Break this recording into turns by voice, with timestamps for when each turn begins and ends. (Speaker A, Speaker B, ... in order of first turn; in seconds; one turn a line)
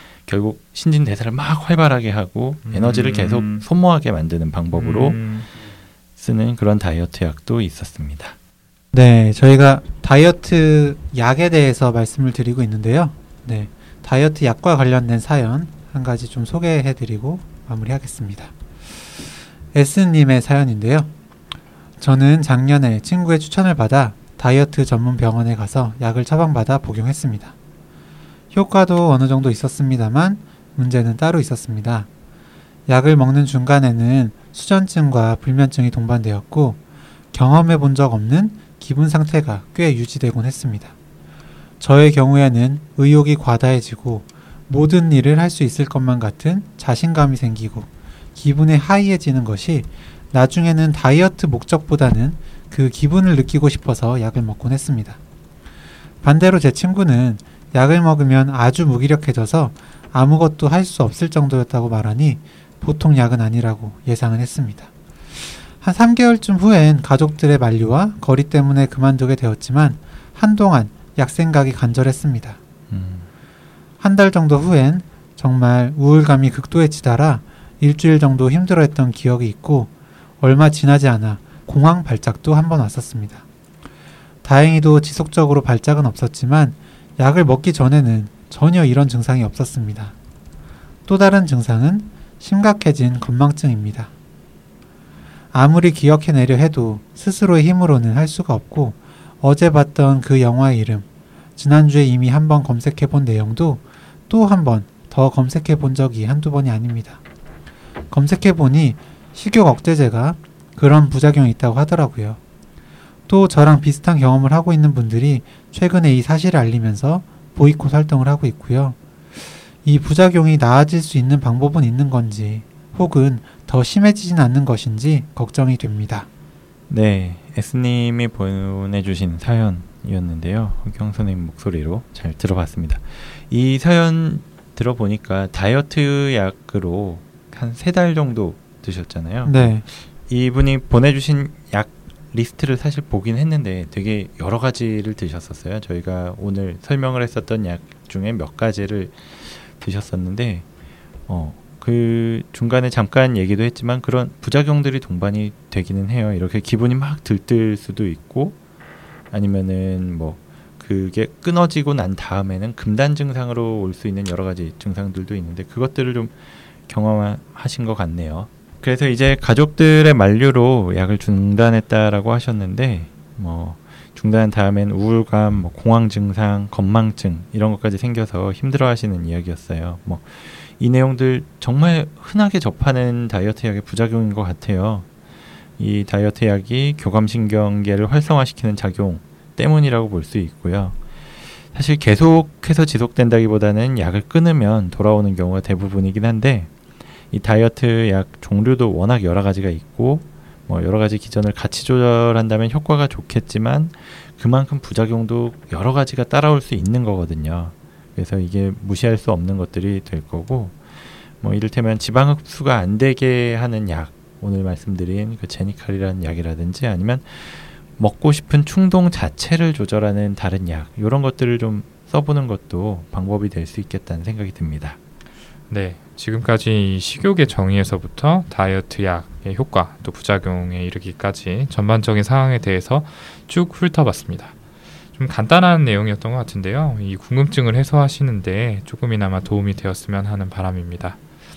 Speaker A: 0.3-5.2
Speaker B: 2.6-3.6
Speaker B: 4.7-5.5
Speaker A: 6.2-8.4
Speaker C: 8.9-18.5
Speaker C: 19.7-21.1
Speaker C: 22.0-27.5
Speaker C: 28.5-32.1
Speaker C: 32.9-36.8
Speaker C: 37.3-41.0
Speaker C: 41.8-55.2
Speaker C: 56.2-64.9
Speaker C: 65.8-72.6
Speaker A: 72.9-73.3
Speaker C: 74.0-83.4
Speaker C: 84.4-90.1
Speaker C: 91.1-94.1
Speaker C: 95.5-107.2
Speaker C: 108.1-112.4
Speaker C: 113.3-119.0
Speaker C: 119.8-126.3
Speaker A: 126.9-150.7
Speaker C: 139.4-139.8
Speaker A: 151.3-158.6
Speaker A: 159.3-166.4
Speaker A: 166.9-185.1
Speaker A: 185.8-191.0
Speaker A: 191.7-196.7
Speaker A: 197.3-210.8
Speaker A: 211.4-225.0
Speaker B: 225.7-234.6
Speaker B: 235.2-241.2